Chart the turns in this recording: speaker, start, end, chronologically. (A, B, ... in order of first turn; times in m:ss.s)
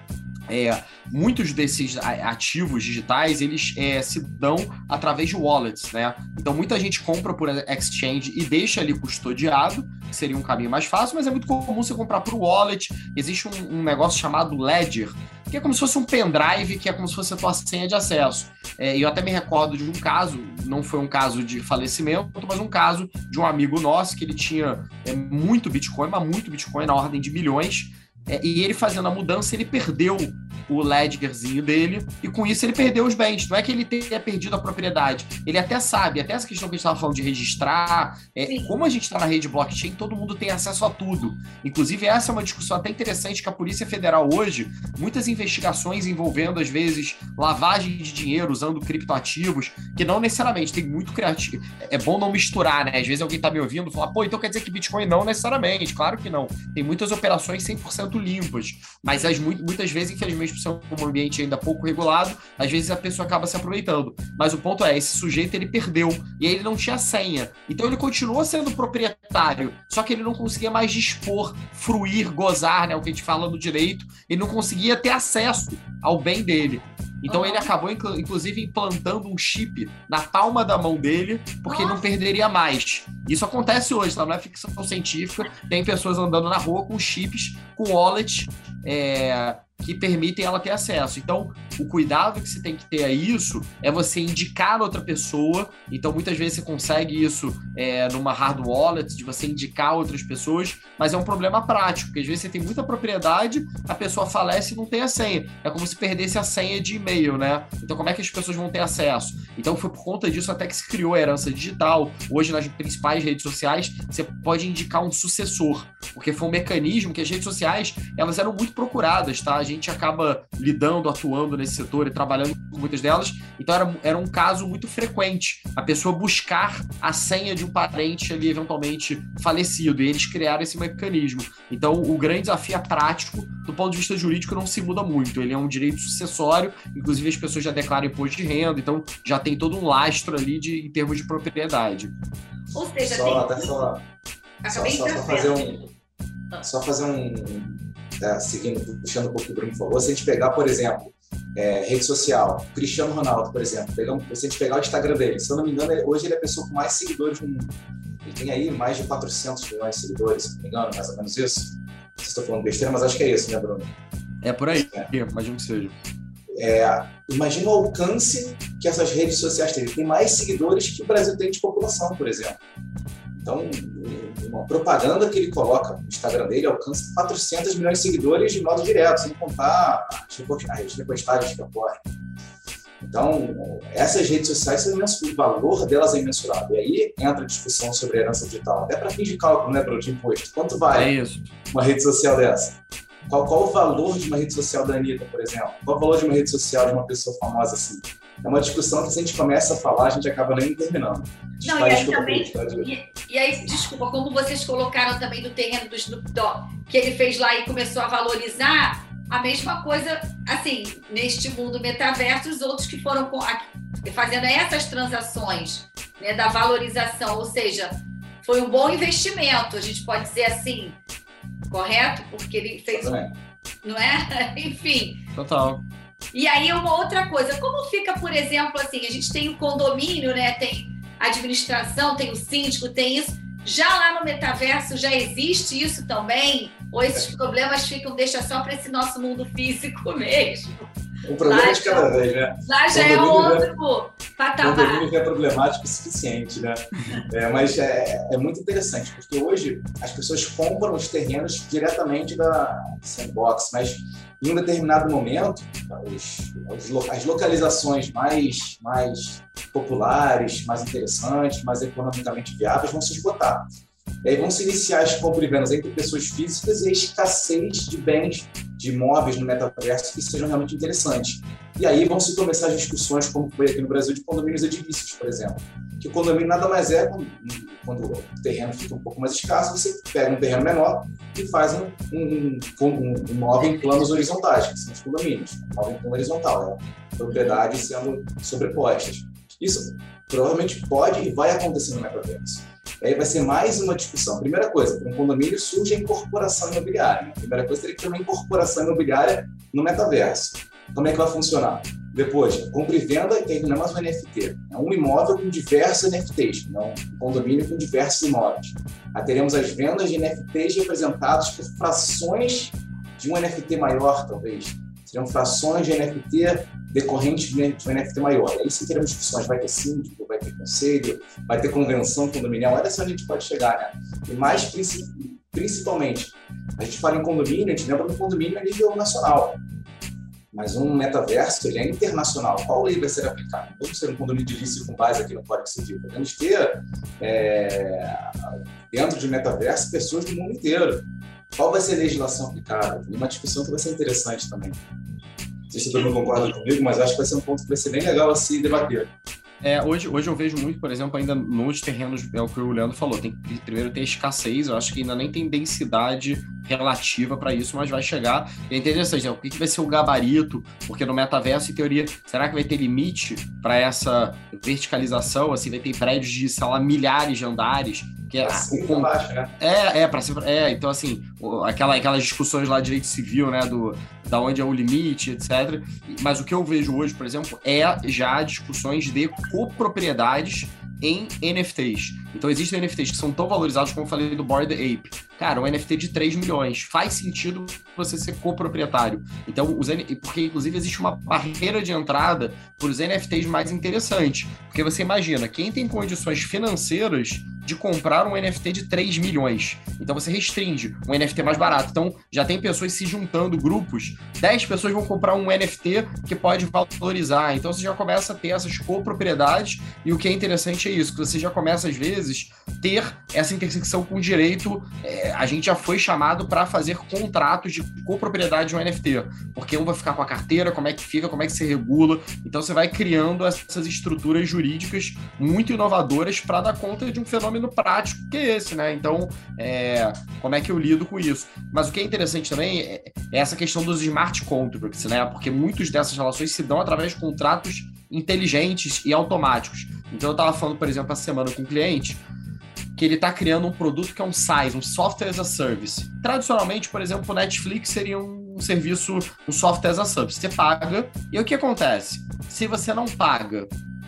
0:00.5-2:22.1 A
0:38.4-0:38.7 B
1:17.3-1:17.7 B
1:21.6-1:22.0 B
2:22.7-2:23.8 B
2:23.0-2:24.0 C
2:24.6-2:25.9 B
2:24.7-2:25.8 C
2:26.6-2:43.9 C
2:44.4-2:45.9 A
2:44.7-2:45.1 C
2:46.5-2:52.6 C
2:53.4-3:02.0 C
3:03.0-3:11.1 C
3:10.9-3:11.5 A
3:11.7-3:22.9 C
3:21.6-3:41.0 B
3:41.7-3:43.2 B
3:42.9-3:43.4 C
3:43.8-3:45.2 B
3:45.4-3:45.8 A
3:46.3-4:00.9 B
4:01.2-4:03.7 C
4:01.4-4:02.1 B
4:02.6-4:05.0 B
4:04.6-4:23.7 C
4:24.2-5:29.6 C
4:43.6-4:44.0 B
4:47.3-4:47.6 B
5:30.5-5:38.2 C
5:38.9-5:41.0 C
5:41.6-5:44.8 C
5:45.7-5:49.1 C
5:49.6-7:22.2 A
6:08.4-6:09.5 C
6:41.4-6:41.8 B
7:23.0-7:33.7 A